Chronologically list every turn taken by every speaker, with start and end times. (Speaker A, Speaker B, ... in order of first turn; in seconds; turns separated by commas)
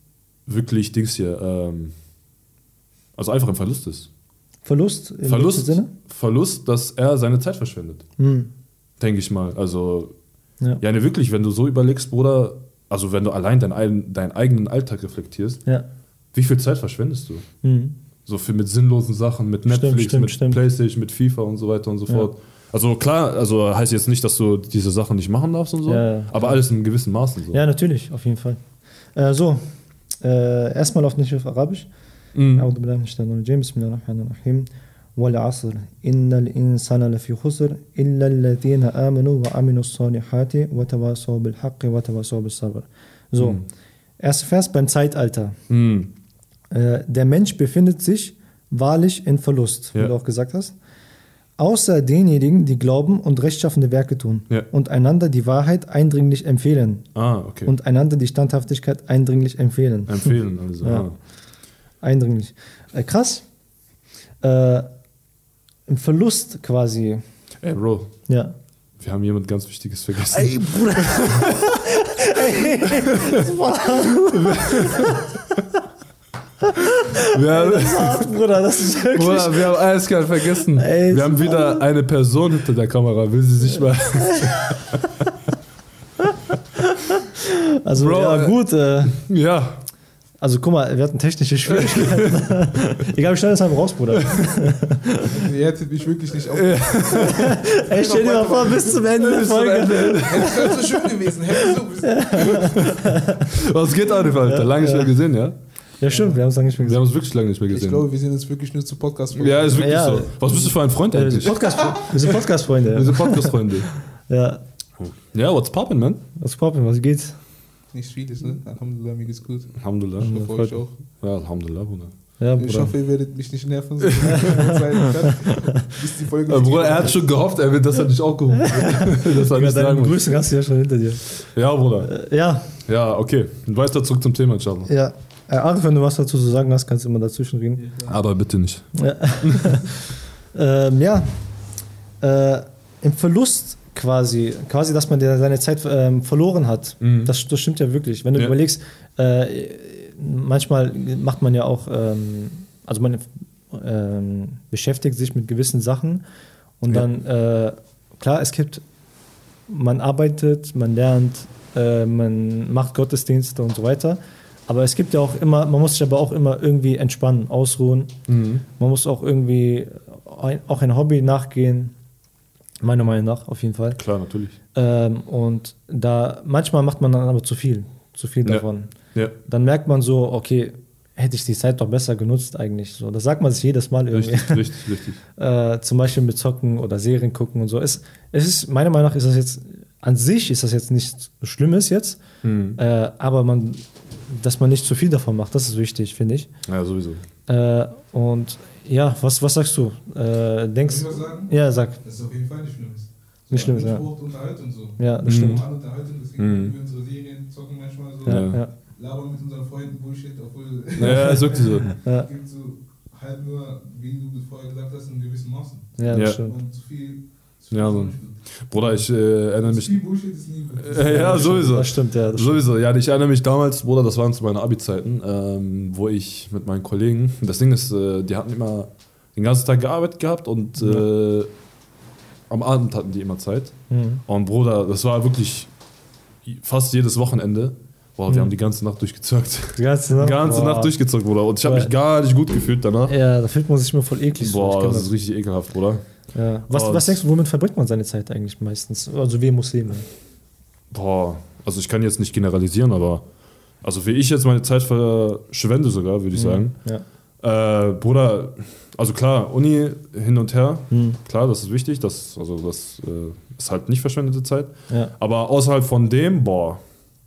Speaker A: 0.5-1.9, Speaker A: 3.2-4.1, Speaker B: 4.6-5.9, Speaker A: 5.2-8.1, Speaker B: 8.2-8.5, Speaker A: 9.0-10.1, Speaker A: 10.8-15.6, Speaker A: 16.3-17.4, Speaker B: 17.6-18.0, Speaker A: 18.3-27.6, Speaker B: 19.7-20.6, Speaker B: 25.9-26.6, Speaker B: 27.5-28.6, Speaker B: 29.1-31.9, Speaker A: 32.4-32.7, Speaker B: 32.5-43.6, Speaker A: 43.4-43.6, Speaker B: 44.2-45.6, Speaker A: 45.7-46.1, Speaker B: 46.7-50.8, Speaker B: 51.6-57.1, Speaker A: 57.1-57.7, Speaker B: 57.6-61.1, Speaker A: 60.1-61.2, Speaker B: 62.0-63.5, Speaker B: 64.4-64.9, Speaker B: 65.9-67.2, Speaker A: 67.6-68.1, Speaker B: 68.3-68.5, Speaker A: 69.0-71.7, Speaker B: 70.3-75.3, Speaker A: 72.8-73.4, Speaker A: 74.2-75.6, Speaker B: 76.6-79.8, Speaker A: 77.2-78.3, Speaker A: 79.1-85.3, Speaker B: 80.6-81.8, Speaker B: 84.2-84.8, Speaker B: 86.3-89.2, Speaker A: 87.9-89.8, Speaker B: 90.4-95.4, Speaker A: 91.7-92.5, Speaker A: 94.2-94.6, Speaker C: 95.2-99.1, Speaker A: 96.5-97.7, Speaker B: 97.2-103.6, Speaker A: 99.1-100.8, Speaker C: 100.2-102.7, Speaker A: 102.4-105.5, Speaker B: 104.3-105.1, Speaker B: 106.0-107.0, Speaker C: 106.1-106.4, Speaker A: 106.8-108.1, Speaker C: 107.7-110.0, Speaker A: 109.3-113.9, Speaker B: 109.8-113.7, Speaker C: 111.5-112.1, Speaker B: 114.3-114.6, Speaker A: 115.0-116.2, Speaker B: 116.4-117.3, Speaker C: 117.9-120.9, Speaker A: 119.8-120.3, Speaker B: 120.2-120.8, Speaker A: 121.2-122.1, Speaker B: 122.4-122.9, Speaker C: 122.6-127.3, Speaker A: 124.1-124.5, Speaker B: 124.3-125.6, Speaker A: 126.5-130.3, Speaker B: 128.6-131.4, Speaker A: 131.4-132.2, Speaker B: 132.0-132.7, Speaker A: 132.8-134.9, Speaker B: 134.9-137.8, Speaker C: 137.8-138.1, Speaker A: 138.1-139.9, Speaker B: 138.9-141.4, Speaker B: 142.2-156.2, Speaker A: 147.0-147.3, Speaker B: 156.8-158.8, Speaker B: 159.7-168.1, Speaker A: 168.3-168.7, Speaker B: 168.8-171.9, Speaker B: 172.8-174.0, Speaker A: 173.9-174.6, Speaker B: 174.7-178.9, Speaker A: 178.4-179.3, Speaker B: 179.5-184.7, Speaker A: 184.1-185.2, Speaker B: 185.4-192.2, Speaker A: 192.4-192.8, Speaker B: 192.8-196.5, Speaker A: 196.7-197.2, Speaker B: 197.5-202.0, Speaker C: 200.8-218.4, Speaker B: 203.5-204.1, Speaker B: 205.0-205.6, Speaker A: 205.2-205.6, Speaker A: 206.4-206.7, Speaker B: 208.2-208.7, Speaker A: 208.3-208.6, Speaker A: 211.0-211.9, Speaker B: 211.0-212.3, Speaker B: 216.0-216.6, Speaker A: 216.1-216.4, Speaker A: 217.7-220.0, Speaker C: 219.6-221.7, Speaker A: 220.8-231.5, Speaker B: 221.0-222.7, Speaker B: 230.8-231.1, Speaker A: 232.5-235.7, Speaker B: 233.9-234.2, Speaker A: 236.5-243.2, Speaker B: 239.8-240.9, Speaker B: 241.6-241.9, Speaker B: 243.1-245.1, Speaker A: 244.4-246.0, Speaker B: 246.3-250.1, Speaker A: 246.7-247.2, Speaker A: 250.9-253.2, Speaker A: 253.8-256.7, Speaker B: 256.4-257.0, Speaker A: 257.4-266.8, Speaker B: 260.9-261.2